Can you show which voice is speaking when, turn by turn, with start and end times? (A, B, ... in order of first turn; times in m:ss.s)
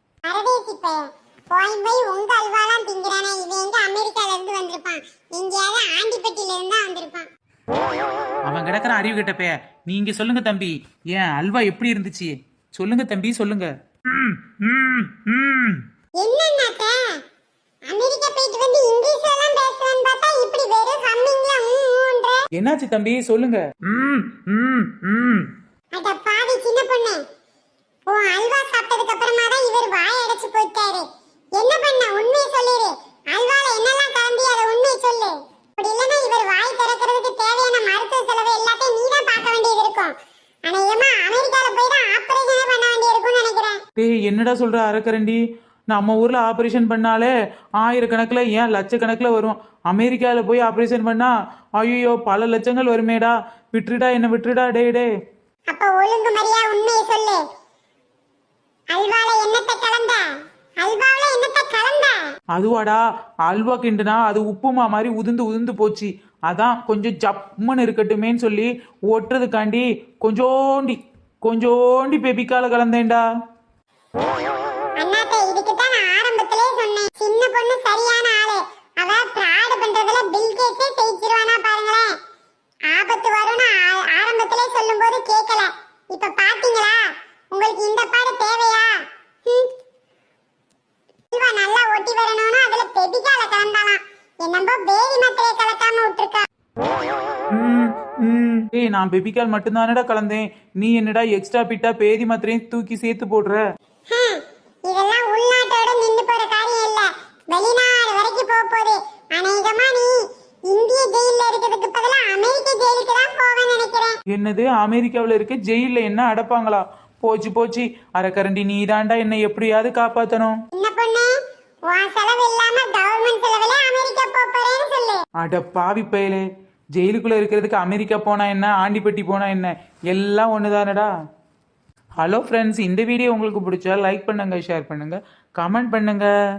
0:00.3-0:07.3 A
0:08.5-0:13.7 B
0:14.1-0:15.8 C
0:16.2-0:16.9 A
0:17.9-0:22.4 A
0:22.6-0:23.6 B
0:23.8-0:25.5 C
0:25.9-0:27.2 A
0:28.1-0:31.0 A
0:31.6-0:40.1 A
0:40.7-0:43.8 A
0:44.0-0:55.1 B
0:55.7-0:57.4 A
0:58.9-1:00.2 A
1:00.8-1:02.2 A
1:02.5-1:13.2 B
1:15.0-1:22.1 A
1:22.9-1:27.0 A
1:27.5-1:28.9 A
1:31.3-1:36.4 A
1:37.5-1:38.7 C
1:38.7-1:43.6 B
1:44.1-1:50.1 A
1:50.7-1:54.1 A
1:54.3-2:00.6 B
2:00.8-2:01.3 A
2:01.9-2:05.2 A
2:05.4-2:11.1 B
2:12.2-2:16.3 B